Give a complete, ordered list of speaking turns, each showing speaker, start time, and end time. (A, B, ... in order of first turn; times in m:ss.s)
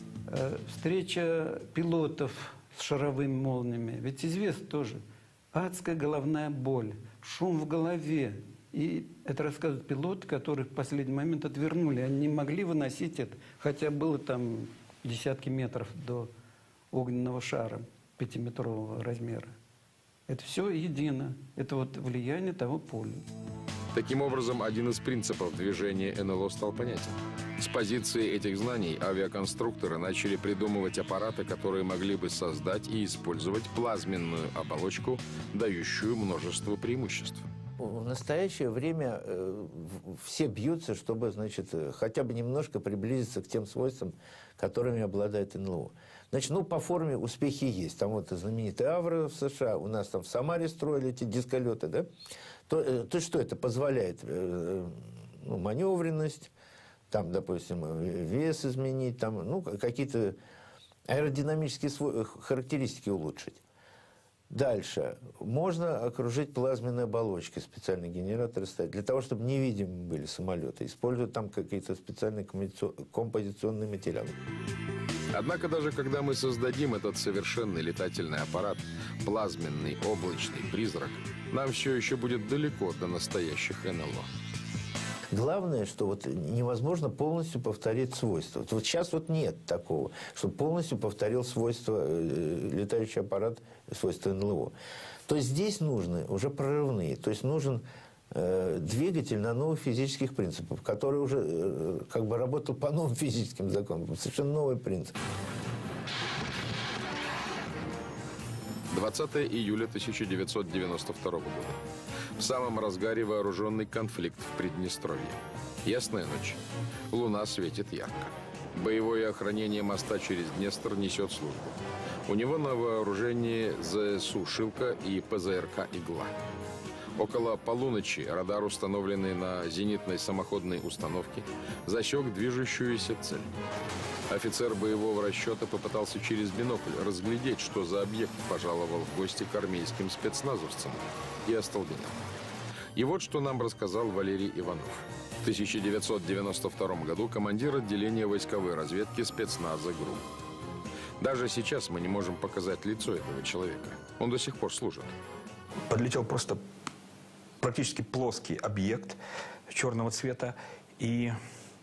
0:00.3-0:16.3 A
0:16.9-0:19.5 A
0:20.3-0:23.2 A
0:23.9-0:37.4 B
0:37.8-0:52.1 C
0:52.7-0:56.5 C
0:57.1-1:00.4 C
1:01.1-1:03.6 C
1:04.5-1:14.3 C
1:15.3-1:24.3 B
1:25.3-1:34.7 C
1:35.2-1:45.2 C
1:48.9-1:51.8 B
1:52.4-1:56.6 B
1:57.1-2:06.3 B
2:07.2-2:13.5 B
2:14.3-2:22.3 B
2:22.9-2:30.3 B
2:31.2-2:35.1 B
2:35.9-2:36.6 D
2:37.6-2:41.4 D